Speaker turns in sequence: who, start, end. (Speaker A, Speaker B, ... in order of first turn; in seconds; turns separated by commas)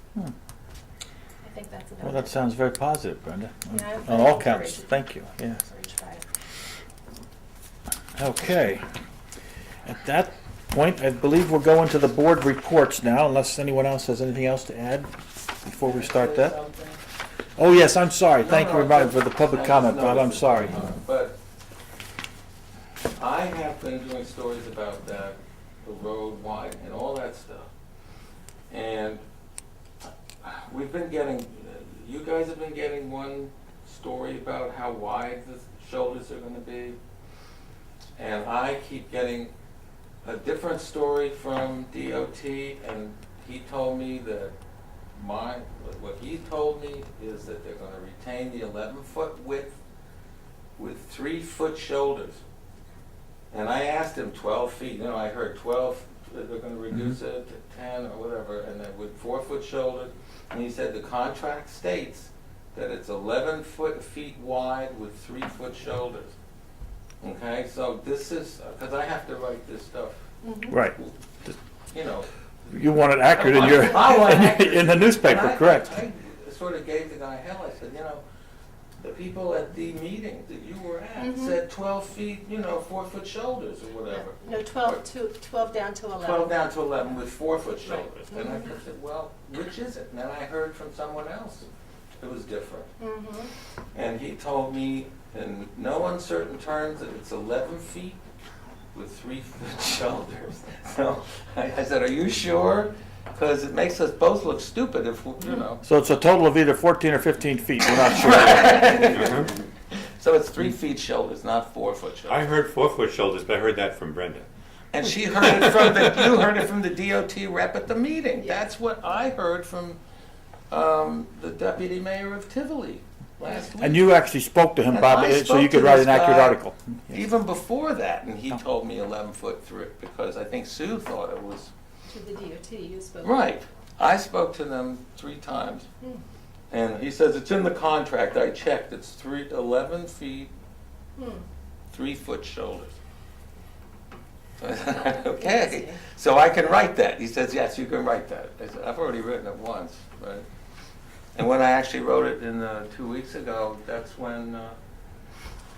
Speaker A: 1.4-2.3, Speaker B: 2.0-5.6, Speaker A: 3.7-5.0, Speaker A: 5.6-6.2, Speaker B: 8.2-8.8, Speaker B: 9.8-15.1, Speaker B: 15.6-16.5, Speaker C: 15.8-17.0, Speaker B: 17.6-20.8, Speaker C: 18.4-21.4, Speaker C: 23.2-27.7, Speaker C: 28.7-29.2, Speaker C: 30.4-37.0, Speaker C: 38.2-39.5, Speaker C: 40.2-44.5, Speaker C: 45.1-49.8, Speaker C: 50.8-52.4, Speaker C: 53.5-66.3, Speaker C: 67.2-70.2, Speaker A: 70.4-70.8, Speaker B: 70.7-71.5, Speaker C: 70.8-71.1, Speaker C: 71.9-72.3, Speaker B: 72.7-76.0, Speaker C: 73.3-78.2, Speaker C: 79.0-85.0, Speaker A: 81.2-81.6, Speaker A: 84.1-86.6, Speaker C: 86.1-91.7, Speaker A: 88.3-88.7, Speaker C: 92.2-92.9, Speaker A: 93.0-93.5, Speaker C: 93.9-98.2, Speaker C: 98.9-105.8, Speaker B: 105.8-109.0, Speaker C: 107.9-112.4, Speaker D: 112.3-114.5, Speaker C: 114.9-120.0, Speaker A: 118.4-118.7, Speaker C: 120.7-124.1, Speaker B: 123.8-127.2, Speaker C: 124.9-131.7, Speaker A: 132.1-133.5, Speaker C: 133.2-135.9, Speaker C: 136.7-140.5, Speaker A: 141.2-141.4, Speaker C: 141.9-143.0, Speaker C: 144.6-150.5, Speaker A: 145.4-146.0, Speaker C: 151.3-154.8